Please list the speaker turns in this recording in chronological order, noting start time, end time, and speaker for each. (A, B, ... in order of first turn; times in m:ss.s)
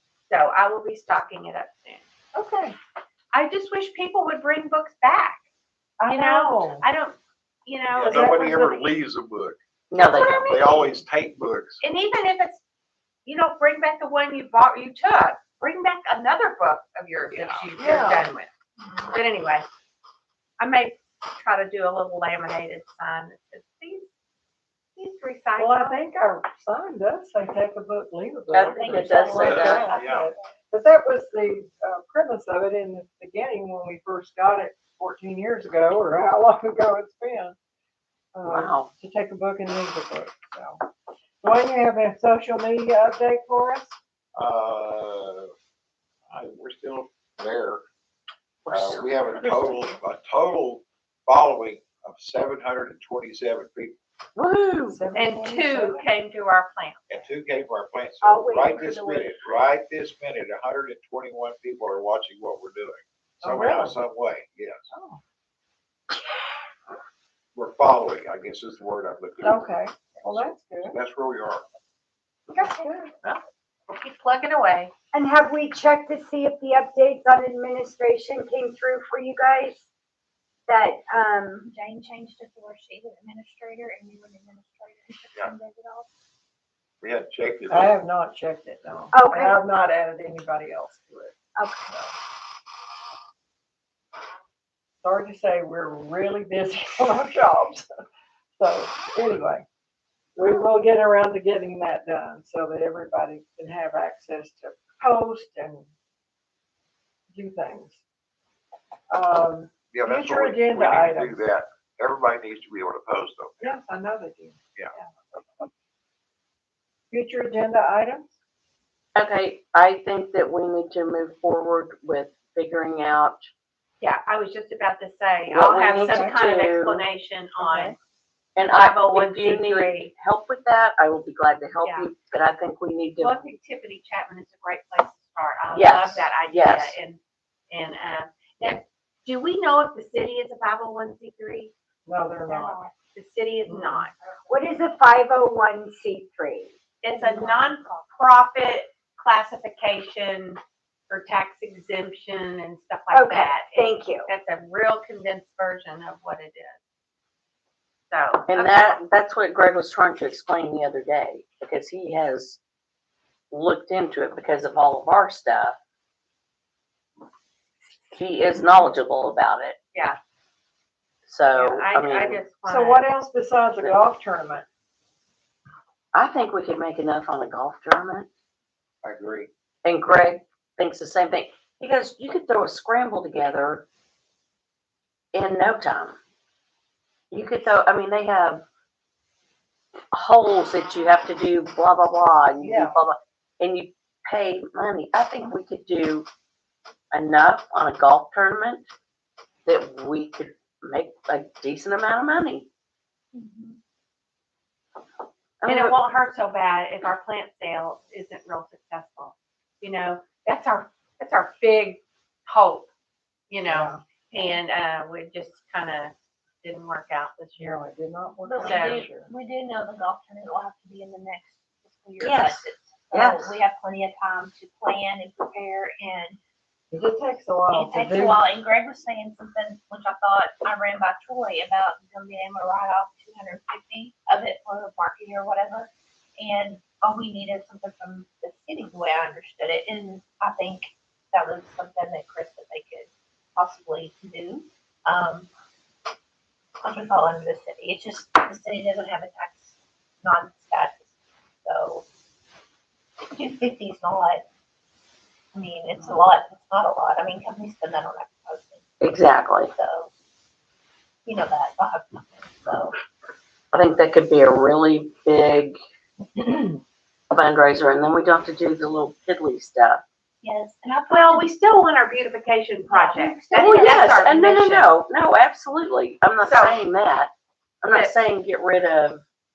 0:00.3-0:02.1 A
0:02.3-0:02.8 B
0:03.3-0:05.4 A
0:06.0-0:06.9 B
0:06.1-0:08.8 A
0:08.0-0:09.6 C
0:08.0-0:08.6 B
0:09.9-0:10.6 D
0:10.1-0:11.0 A
0:10.4-0:11.8 C
0:11.8-0:12.6 A
0:13.2-0:18.5 A
0:17.3-0:17.6 C
0:17.8-0:18.3 B
0:19.1-0:19.7 A
0:20.6-0:24.1 A
0:25.0-0:26.0 A
0:25.6-0:37.6 B
0:28.5-0:30.0 D
0:28.8-0:30.0 E
0:29.4-0:30.3 C
0:38.3-0:40.8 B
0:38.5-0:38.9 D
0:41.4-0:44.0 B
0:44.4-0:45.5 C
0:46.3-0:47.8 C
0:48.7-0:49.9 D
0:48.7-0:54.0 C
0:54.4-0:55.0 D
0:54.9-0:56.1 B
0:55.1-0:57.1 A
0:57.1-1:04.9 C
0:58.2-0:59.4 F
1:03.4-1:04.0 B
1:04.9-1:05.2 B
1:07.6-1:11.6 C
1:09.4-1:11.0 B
1:12.6-1:13.1 B
1:13.2-1:14.9 A
1:15.1-1:19.9 F
1:20.7-1:21.7 F
1:21.6-1:26.1 E
1:27.0-1:27.9 C
1:27.7-1:32.1 B
1:29.1-1:29.6 F
1:31.6-1:31.9 F
1:35.0-1:37.9 B
1:38.6-1:39.6 B
1:40.4-1:45.9 B
1:47.3-1:48.0 B
1:49.1-1:51.4 B
1:49.9-1:53.6 C
1:53.6-1:55.7 B
1:57.1-1:58.3 B
1:59.2-2:03.5 D
2:04.0-2:08.0 A
2:05.5-2:07.0 D
2:05.8-2:06.5 B
2:07.6-2:08.0 B
2:08.6-2:13.4 D
2:08.7-2:10.1 A
2:11.8-2:12.1 A
2:13.2-2:21.7 A
2:15.7-2:17.0 D
2:22.1-2:22.9 B
2:22.5-2:24.1 A
2:23.7-2:24.1 B
2:24.5-2:27.8 F
2:27.0-2:36.8 A
2:33.1-2:34.3 F
2:38.1-2:39.0 A
2:38.5-2:42.6 D
2:43.5-2:45.8 D
2:48.1-2:49.8 D
2:51.3-2:52.4 D
2:51.5-2:53.0 A
2:52.6-2:54.7 B
2:56.1-2:58.3 D
2:59.0-2:59.5 C
2:59.8-3:03.8 D
3:05.3-3:06.2 D
3:07.3-3:08.6 D
3:10.1-3:16.3 D
3:12.6-3:13.0 B
3:17.1-3:18.9 D
3:19.7-3:22.7 D
3:23.3-3:23.8 E
3:25.6-3:26.0 D
3:25.7-3:32.9 A
3:33.5-3:37.8 A
3:33.7-3:34.0 B
3:37.6-3:39.3 B
3:38.5-3:46.4 E
3:38.6-3:39.0 A
3:38.7-3:39.1 D
3:42.2-3:43.6 D
3:46.9-3:48.5 B
3:47.7-4:05.5 E
4:06.8-4:11.1 E
4:11.6-4:12.0 E
4:13.2-4:14.4 E
4:15.5-4:18.9 E
4:19.0-4:19.7 D
4:19.7-4:20.1 E
4:21.3-4:23.0 E
4:23.7-4:25.8 D
4:27.3-4:30.0 D
4:30.4-4:31.5 E
4:31.1-4:34.9 A
4:32.9-4:34.1 E
4:33.5-4:37.3 D
4:36.4-4:36.8 A
4:37.8-4:39.2 D